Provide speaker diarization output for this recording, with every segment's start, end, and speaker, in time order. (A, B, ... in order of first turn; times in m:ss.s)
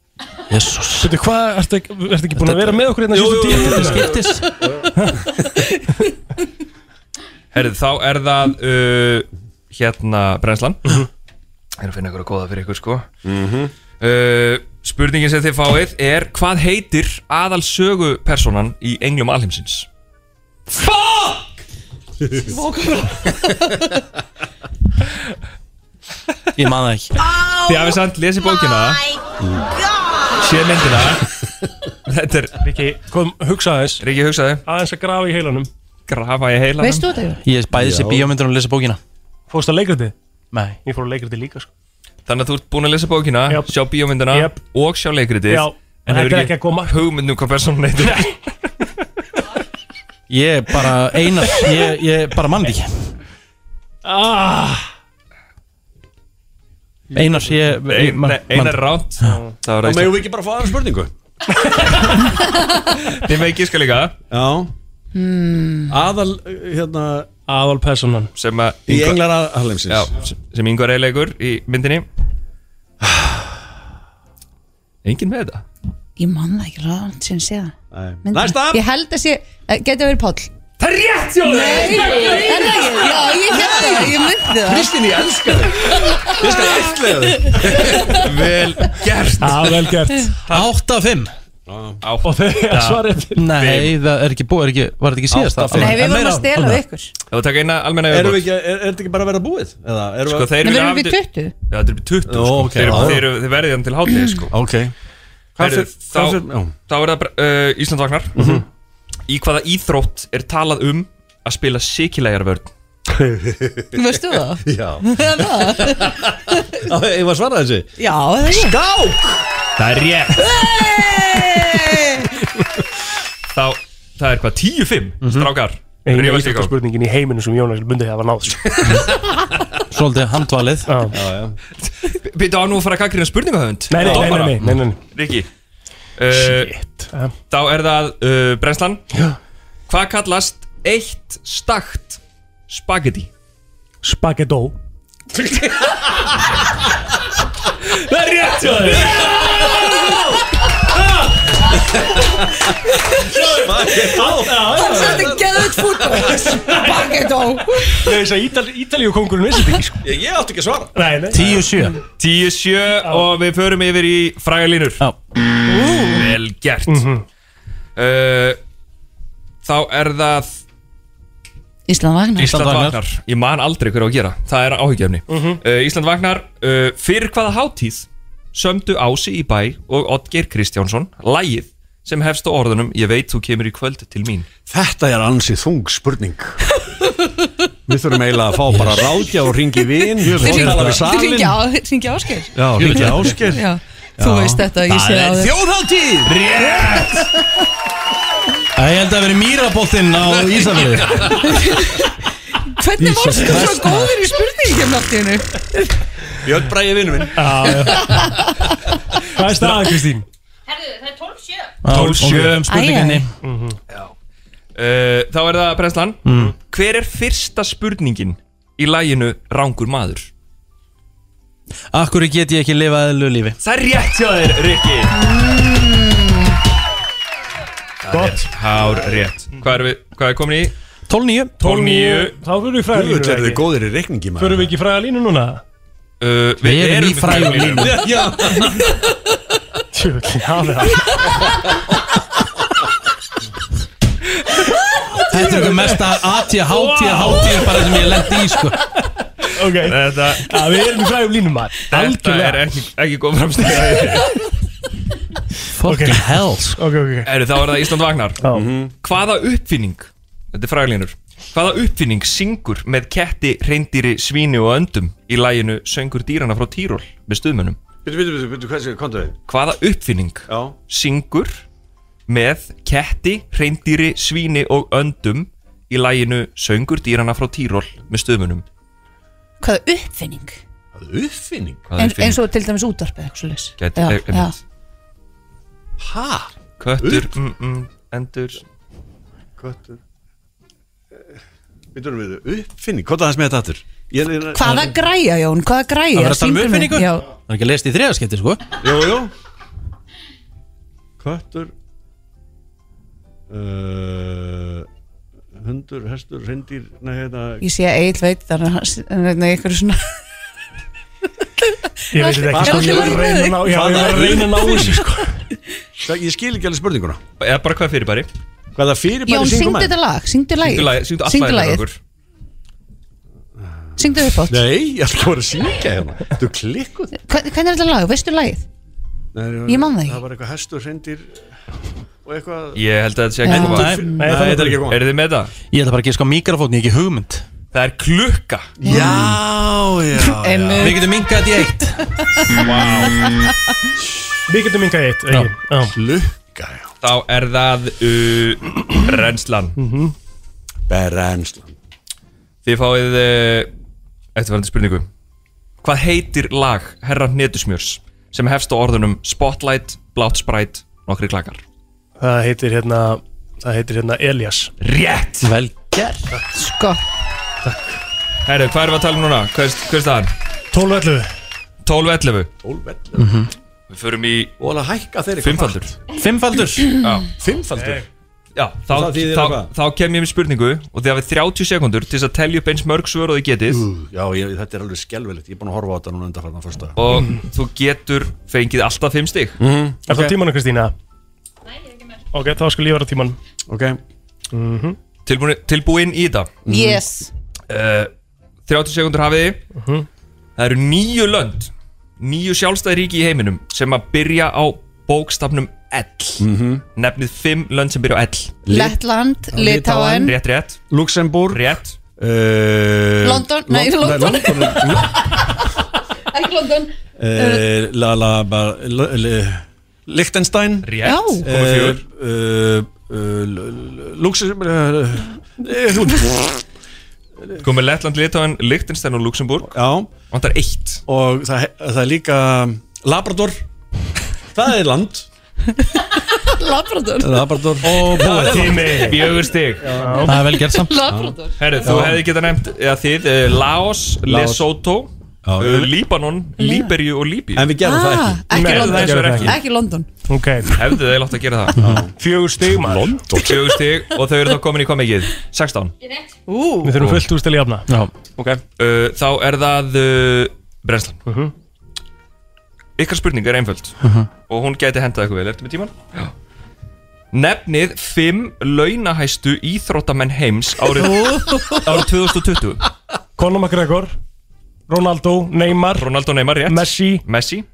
0:00.5-0:01.2 A
0:01.0-0:04.1 B
0:02.4-0:02.9 A
0:03.1-0:05.4 C
0:03.4-0:04.5 A
0:05.0-0:05.2 B
0:07.5-0:11.0 D
0:11.8-0:13.1 D
0:13.2-0:13.7 C
0:14.0-0:19.9 D
0:20.8-0:21.4 D
0:22.2-0:22.5 C
0:22.5-0:23.5 E
0:26.6-0:27.1 A
0:27.4-0:28.6 E
0:27.7-0:29.0 D
0:30.0-0:30.3 E
0:30.4-0:31.2 D
0:32.1-0:32.6 D
0:32.6-0:34.0 B
0:34.0-0:34.6 D
0:34.7-0:35.7 B
0:36.1-0:37.1 D
0:36.8-0:37.4 E
0:37.4-0:39.0 A
0:37.7-0:38.3 C
0:39.5-0:40.1 B
0:40.5-0:40.8 A
0:40.8-0:41.7 B
0:42.3-0:48.4 D
0:44.3-0:44.6 B
0:45.5-0:47.0 B
0:50.3-0:52.9 A
0:54.1-0:54.8 B
0:57.1-0:58.8 A
0:57.8-1:00.2 D
0:59.2-0:59.5 B
0:59.8-1:01.1 C
1:03.1-1:04.1 D
1:04.3-1:04.7 C
1:05.1-1:05.9 E
1:05.9-1:07.3 C
1:07.5-1:08.3 B
1:08.4-1:09.2 D
1:08.9-1:10.1 C
1:09.9-1:12.1 D
1:13.0-1:13.5 C
1:15.0-1:15.6 D
1:16.2-1:20.5 E
1:17.9-1:18.8 C
1:20.8-1:23.1 D
1:21.4-1:24.9 E
1:23.6-1:28.3 C
1:26.1-1:26.5 E
1:28.0-1:30.0 D
1:29.4-1:30.3 B
1:30.5-1:31.3 A
1:31.7-1:32.0 C
1:32.0-1:33.9 D
1:32.2-1:33.4 B
1:33.4-1:36.8 A
1:35.3-1:36.1 C
1:35.8-1:37.1 E
1:37.3-1:38.4 D
1:38.1-1:40.5 C
1:40.3-1:41.2 D
1:40.6-1:41.5 E
1:41.7-1:44.5 D
1:42.3-1:43.3 C
1:44.5-1:44.9 C
1:45.6-1:46.7 C
1:45.6-1:48.4 D
1:48.4-1:48.6 C
1:49.3-1:52.7 D
1:53.2-1:54.0 C
1:53.9-1:56.2 E
1:54.6-1:57.9 C
1:58.0-1:58.8 E
1:58.5-1:59.4 C
1:59.8-2:00.5 D
2:00.5-2:02.0 C
2:00.6-2:02.3 E
2:03.5-2:06.7 D
2:05.2-2:05.5 A
2:06.0-2:08.9 B
2:09.9-2:11.0 A
2:10.9-2:11.2 B
2:11.1-2:11.6 C
2:11.8-2:15.5 D
2:13.9-2:15.0 B
2:14.0-2:14.4 C
2:16.2-2:16.7 D
2:16.4-2:17.3 B
2:17.5-2:19.0 D
2:19.9-2:23.3 D
2:24.0-2:24.8 B
2:25.3-2:26.0 C
2:28.1-2:29.4 B
2:28.8-2:29.9 C
2:33.2-2:36.6 C
2:33.3-2:35.4 B
2:34.7-2:38.1 E
2:36.5-2:37.1 B
2:37.9-2:40.0 B
2:40.0-2:41.7 C
2:41.0-2:41.4 B
2:41.3-2:42.0 A
2:42.2-2:45.0 D
2:45.7-2:46.2 E
2:46.1-2:47.1 D
2:46.9-2:47.2 B
2:48.0-2:48.6 D
2:49.6-2:50.6 D
2:51.9-2:52.6 E
2:52.4-2:53.0 A
2:52.4-3:04.5 D
2:55.3-2:55.6 B
3:04.7-3:06.6 C
3:07.9-3:11.6 C
3:10.2-3:11.1 A
3:10.3-3:12.6 E
3:12.5-3:13.7 C
3:12.8-3:13.5 A
3:13.4-3:15.6 E
3:14.2-3:16.4 C
3:16.2-3:17.3 D
3:18.8-3:21.5 A
3:20.4-3:21.5 C
3:21.4-3:22.1 E
3:22.8-3:25.9 E
3:23.0-3:24.1 C
3:23.4-3:23.8 A
3:26.4-3:28.3 C
3:27.4-3:28.2 B
3:27.9-3:28.3 E
3:29.4-3:30.2 B
3:31.1-3:31.4 E
3:31.8-3:33.3 A
3:31.9-3:32.6 D
3:32.6-3:33.3 E
3:33.4-3:33.8 B
3:34.8-3:40.3 D
3:36.2-3:36.6 A
3:41.9-3:43.6 A
3:43.6-3:45.2 D
3:45.1-3:46.5 E
3:48.0-3:50.7 D
3:48.1-3:48.5 B
3:51.1-3:51.6 A
3:51.6-3:52.4 D
3:51.6-3:53.6 B
3:52.9-3:54.7 C
3:54.4-3:55.6 B
3:56.2-3:58.1 D
3:56.6-3:58.2 A
3:57.8-3:58.9 C
3:59.9-4:01.3 B
4:05.2-4:06.1 B
4:05.3-4:08.8 A
4:06.7-4:08.1 B
4:09.5-4:12.7 B
4:09.8-4:10.6 D
4:11.9-4:14.3 D
4:15.7-4:16.8 A
4:15.8-4:16.3 B
4:16.8-4:17.3 B
4:17.2-4:18.4 D
4:18.5-4:18.9 C
4:19.0-4:27.8 D
4:28.0-4:29.4 C
4:29.5-4:31.6 D
4:30.5-4:30.8 C
4:32.3-4:38.6 D
4:39.6-4:40.6 E
4:41.0-4:41.9 C
4:41.9-4:42.4 D
4:42.0-4:44.6 E
4:43.8-4:44.6 D
4:46.0-4:47.3 C
4:46.8-4:48.6 D
4:49.6-4:50.0 C
4:51.9-4:54.9 C
4:54.6-4:57.3 E
4:56.1-4:58.6 A
4:58.8-4:59.3 C
5:01.2-5:01.7 C
5:03.5-5:04.9 C
5:05.6-5:07.6 C
5:07.6-5:10.0 E
5:12.1-5:15.3 B
5:12.1-5:13.9 E
5:12.5-5:15.0 C
5:16.0-5:17.2 C
5:17.4-5:18.3 D
5:18.8-5:19.9 C
5:19.3-5:21.8 E
5:20.6-5:22.0 D
5:23.6-5:23.9 C
5:24.0-5:24.6 E
5:24.5-5:27.1 C
5:27.1-5:28.6 E
5:29.3-5:31.4 C
5:29.7-5:30.2 E
5:32.2-5:32.8 C
5:32.8-5:34.0 D
5:33.4-5:34.3 E
5:33.5-5:35.0 C
5:33.6-5:34.1 A
5:34.2-5:34.8 B
5:34.8-5:35.5 D
5:35.7-5:37.4 A
5:37.7-5:38.7 D
5:38.8-5:41.0 C
5:38.8-5:39.4 E
5:40.3-5:41.0 E
5:40.8-5:42.0 A
5:42.6-5:43.1 D
5:44.5-5:45.9 B
5:45.9-5:46.9 C
5:47.0-5:49.8 D
5:49.8-5:50.1 B
5:50.9-5:51.8 C
5:52.6-5:53.7 D
5:54.4-5:55.1 D
5:55.8-6:01.6 D
6:02.2-6:04.7 B
6:04.8-6:05.5 D
6:05.4-6:06.3 A
6:06.5-6:07.0 E
6:08.5-6:10.3 D
6:10.7-6:11.3 B
6:11.8-6:12.5 D
6:12.6-6:13.3 C
6:13.2-6:13.5 A
6:13.9-6:14.5 D
6:14.6-6:15.9 C
6:15.4-6:16.0 D
6:16.1-6:17.0 A
6:17.0-6:17.3 D
6:17.4-6:18.1 C
6:18.6-6:23.8 D
6:18.9-6:19.7 C
6:23.7-6:27.0 C
6:27.0-6:29.6 D
6:29.6-6:30.4 C
6:30.1-6:30.9 B
6:32.3-6:33.4 B
6:33.7-6:34.0 C
6:34.5-6:35.0 B
6:35.3-6:36.5 D
6:36.6-6:37.0 C
6:36.7-6:37.3 E
6:37.7-6:38.1 D
6:38.7-6:39.6 D
6:39.8-6:40.1 B
6:40.6-6:46.4 D
6:46.4-6:46.8 C
6:47.0-6:48.6 D
6:48.6-6:49.0 C
6:48.7-6:50.4 E
6:49.5-6:50.3 C
6:50.2-6:50.8 D
6:50.9-6:55.4 C
6:51.5-6:52.0 D
6:53.2-6:55.5 E
6:56.3-6:57.7 E
6:57.2-7:06.6 C
7:00.8-7:02.0 D
7:01.0-7:01.5 E
7:07.6-7:09.7 D
7:09.7-7:10.1 C
7:10.3-7:11.0 D
7:11.1-7:13.6 C
7:14.5-7:15.3 C
7:16.3-7:17.5 E
7:17.2-7:19.2 C
7:17.8-7:18.9 A
7:18.2-7:20.0 D
7:18.5-7:19.2 B
7:19.8-7:20.3 C
7:20.0-7:20.4 B
7:20.2-7:21.0 A
7:20.6-7:21.9 E
7:21.1-7:22.2 C
7:21.6-7:27.8 D
7:24.3-7:24.7 C
7:25.4-7:26.0 C
7:26.6-7:26.9 E
7:27.6-7:29.6 C
7:27.8-7:30.1 E
7:28.5-7:29.6 B
7:28.6-7:29.5 D
7:30.3-7:30.8 B
7:30.7-7:31.8 D
7:31.8-7:32.0 A
7:31.8-7:33.8 C
7:32.2-7:33.3 B
7:33.4-7:35.9 D
7:36.5-7:37.0 E
7:36.8-7:37.9 B
7:37.0-7:37.2 D
7:37.9-7:38.1 A
7:38.8-7:41.2 D
7:41.3-7:41.5 B
7:43.0-7:46.3 D
7:44.0-7:44.3 A
7:47.3-7:52.8 D
7:51.0-7:51.8 E
7:53.4-7:54.1 B
7:54.9-7:56.1 B
7:56.0-7:57.7 D
7:56.7-7:57.2 B